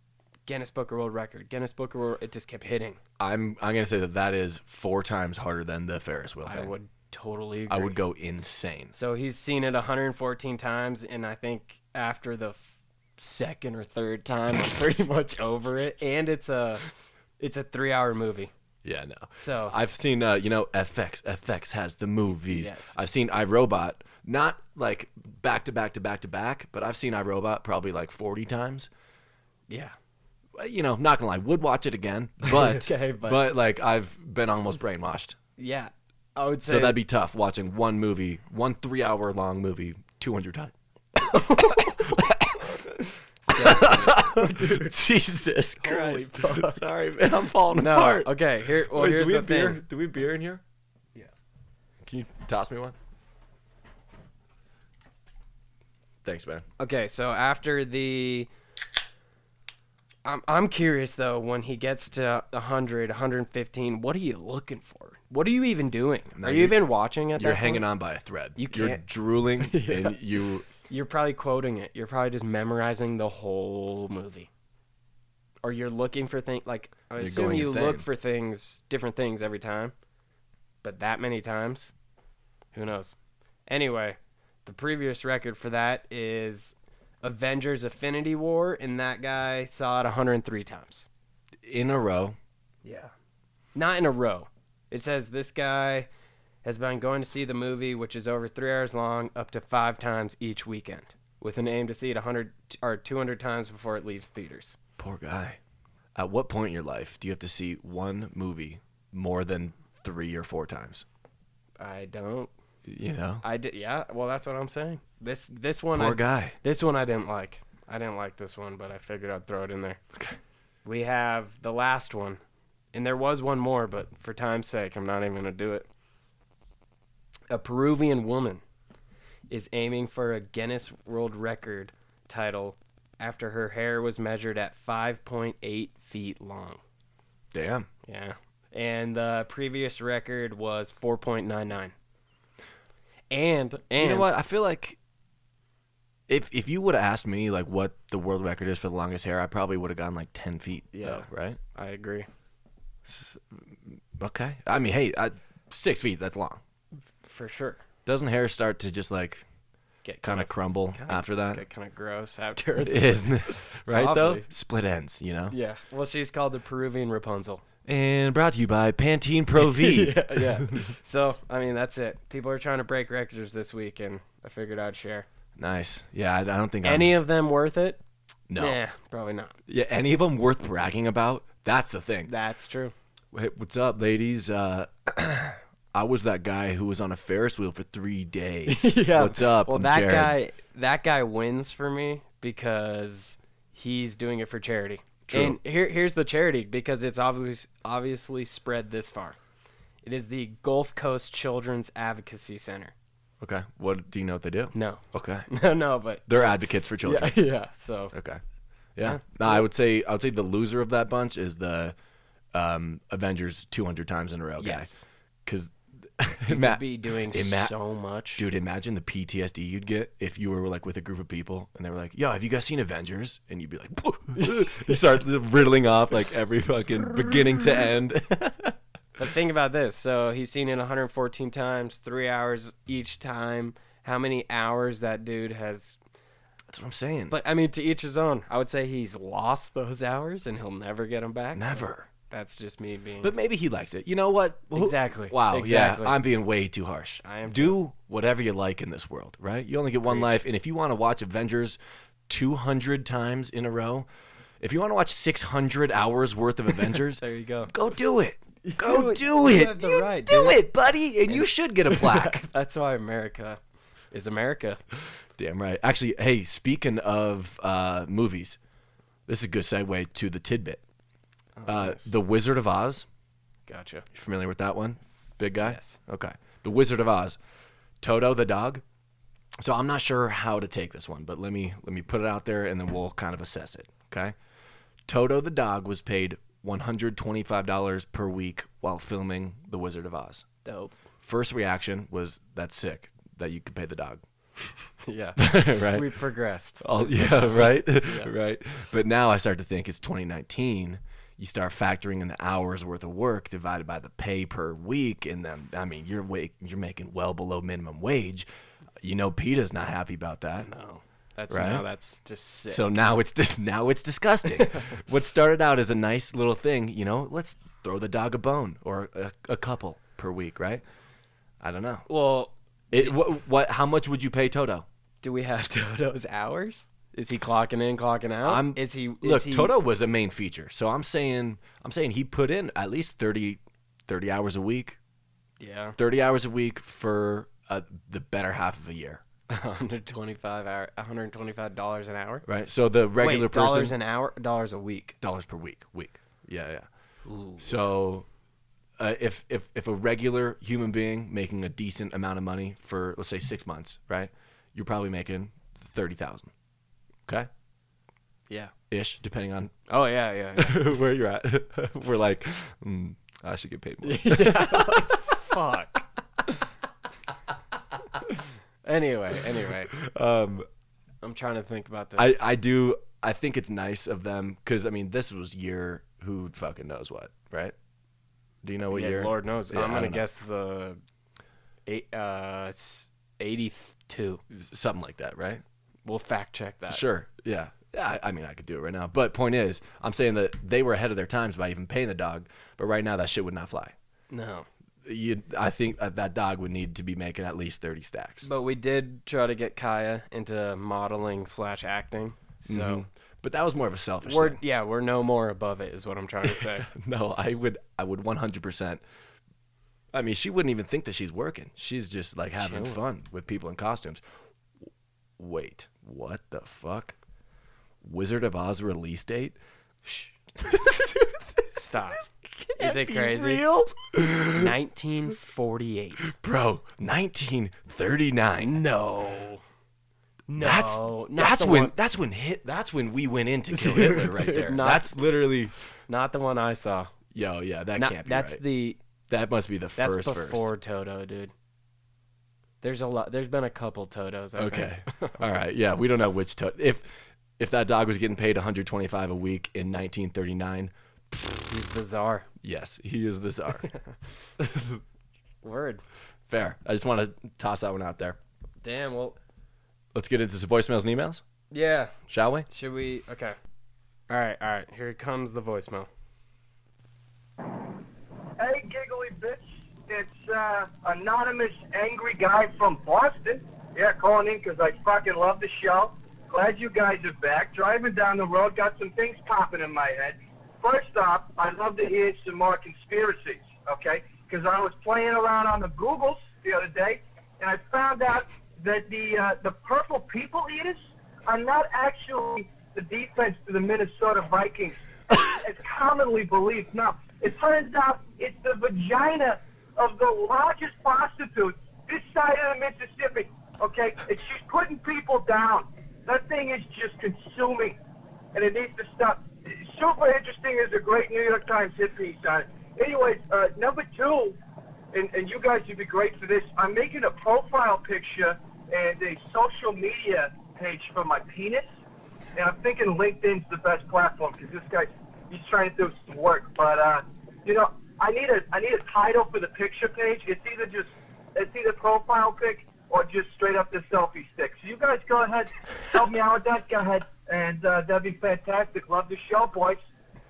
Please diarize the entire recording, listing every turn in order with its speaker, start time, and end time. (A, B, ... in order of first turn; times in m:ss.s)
0:00.5-0:03.0 A
0:03.2-0:06.7 B
0:06.4-0:08.0 A
0:07.7-0:08.9 B
0:08.9-0:16.8 A
0:17.4-0:18.5 A
0:18.8-0:28.9 B
0:19.4-0:19.8 A
0:22.5-0:22.9 A
0:29.7-0:29.9 A
0:30.6-0:35.4 B
0:32.4-0:33.4 A
0:35.6-0:37.0 A
0:36.6-0:40.7 B
0:41.2-0:42.2 A
0:41.3-0:50.6 B
0:43.4-0:45.0 A
0:45.8-0:46.8 A
0:47.7-0:49.8 A
0:52.0-0:53.0 B
0:56.2-0:56.6 B
0:56.8-0:58.5 A
1:00.2-1:07.8 A
1:06.3-1:10.7 B
1:08.6-1:09.0 A
1:09.6-1:10.2 A
1:10.8-1:14.5 A
1:15.6-1:19.9 A
1:17.2-1:18.0 B
1:20.8-1:21.9 A
1:22.7-1:23.2 A
1:23.7-1:31.0 A
1:31.6-1:32.4 B
1:32.8-1:33.1 A
1:33.7-1:36.1 A
1:36.6-1:44.8 A
1:45.0-1:45.6 B
1:46.1-1:51.0 B
1:51.8-1:52.5 A
1:52.8-1:53.4 B
1:53.4-2:00.0 A
1:55.9-1:56.6 B
2:00.8-2:02.4 A
2:02.9-2:05.9 A
2:07.5-2:08.6 A
2:09.5-2:16.8 A
2:17.5-2:17.9 B
2:18.0-2:21.9 A
2:23.3-2:24.3 A
2:24.0-2:25.0 B
2:26.3-2:31.6 B
2:30.9-2:32.3 A
2:33.0-2:36.6 B
2:37.2-2:37.8 A
2:38.0-2:39.4 B
2:40.0-2:44.5 A
2:40.2-2:41.6 B
2:42.8-2:45.5 B
2:45.5-2:47.6 A
2:47.8-2:50.9 B
2:49.6-2:55.2 A
2:55.6-2:57.1 B
2:56.8-2:58.0 A
2:58.5-2:58.8 B
2:58.6-2:59.6 A
2:59.7-3:02.3 B
3:02.3-3:02.9 A
3:03.3-3:10.4 B
3:08.7-3:19.4 A
3:15.3-3:15.6 B
3:20.0-3:22.9 A
3:23.4-3:25.5 B
3:24.7-3:26.3 A
3:26.3-3:27.4 B
3:27.0-3:28.1 A
3:28.1-3:28.4 B
3:29.0-3:32.0 B
3:29.0-3:29.6 A
3:32.5-3:34.9 B
3:34.6-3:35.0 A
3:35.4-3:37.7 B
3:36.5-3:38.4 A
3:38.4-3:48.8 B
3:44.4-3:44.9 A
3:49.2-3:56.0 A
3:56.7-3:57.4 B
3:57.3-4:03.4 A
4:01.5-4:02.1 B
4:03.2-4:14.1 B
4:04.7-4:06.2 A
4:07.2-4:07.8 A
4:10.0-4:10.4 A
4:14.6-4:22.4 B
4:17.2-4:17.7 A
4:18.6-4:20.6 A
4:21.3-4:23.6 A
4:24.1-4:24.8 A
4:25.4-4:28.6 B
4:29.3-4:30.8 B
4:31.6-4:32.1 A
4:31.6-4:33.0 B
4:33.7-4:34.0 A
4:34.1-4:37.4 B
4:35.6-4:36.0 A
4:38.0-4:38.8 B
4:39.6-4:44.3 B
4:45.1-4:50.4 B
4:50.6-4:50.9 A
4:51.2-4:54.2 B
4:55.0-4:58.3 A
4:55.4-4:56.2 B
4:56.8-5:08.5 B
5:09.0-5:10.7 B
5:10.6-5:12.8 A
5:11.5-5:11.8 B
5:12.7-5:20.8 B
5:21.6-5:22.0 B
5:22.1-5:23.2 A
5:22.9-5:24.8 B
5:25.2-5:29.7 A
5:28.4-5:35.0 B
5:35.6-5:36.0 A
5:36.0-5:39.2 B
5:39.5-5:42.4 A
5:42.4-5:43.9 B
5:43.2-5:45.2 A
5:45.2-5:46.9 B
5:47.2-5:47.6 A
5:47.6-5:48.2 B
5:49.0-5:56.5 B
5:58.9-5:59.8 B
5:59.9-6:00.8 A
6:00.6-6:05.3 B
6:04.0-6:06.6 A
6:08.8-6:09.9 A
6:09.9-6:10.7 B
6:11.2-6:12.4 A
6:12.2-6:17.7 B
6:18.6-6:20.2 B
6:18.9-6:21.0 A
6:21.9-6:24.4 A
6:24.5-6:25.6 B
6:26.0-6:27.0 A
6:26.9-6:33.9 B
6:34.3-6:34.6 A
6:35.0-6:38.5 B
6:38.4-6:43.0 A
6:42.6-6:44.6 B
6:44.2-6:46.9 A
6:46.5-6:49.0 B
6:50.1-6:54.2 B
6:52.6-6:53.0 A
6:55.4-6:57.2 B
6:58.0-6:59.6 B
7:00.6-7:01.6 B
7:01.7-7:03.6 A
7:02.2-7:04.7 B
7:04.5-7:06.3 A
7:06.2-7:08.8 B
7:08.6-7:09.6 A
7:10.5-7:11.9 A
7:10.6-7:15.7 B
7:13.7-7:15.1 A
7:16.1-7:17.1 A
7:17.3-7:18.6 B
7:18.0-7:19.0 A
7:19.3-7:20.7 B
7:20.0-7:21.5 A
7:22.8-7:25.4 A
7:24.6-7:31.7 B
7:31.7-7:32.5 A
7:32.6-7:33.9 B
7:33.8-7:34.1 A
7:34.6-7:35.0 B
7:35.6-7:36.0 A
7:36.5-7:38.4 B
7:38.8-7:39.4 A
7:40.1-7:41.4 B
7:41.7-7:42.1 A
7:42.3-7:42.7 B
7:42.7-7:43.6 A
7:44.3-7:46.1 A
7:48.6-8:28.0 C
8:28.5-8:34.6 C
8:35.1-8:41.9 C
8:42.6-9:00.0 C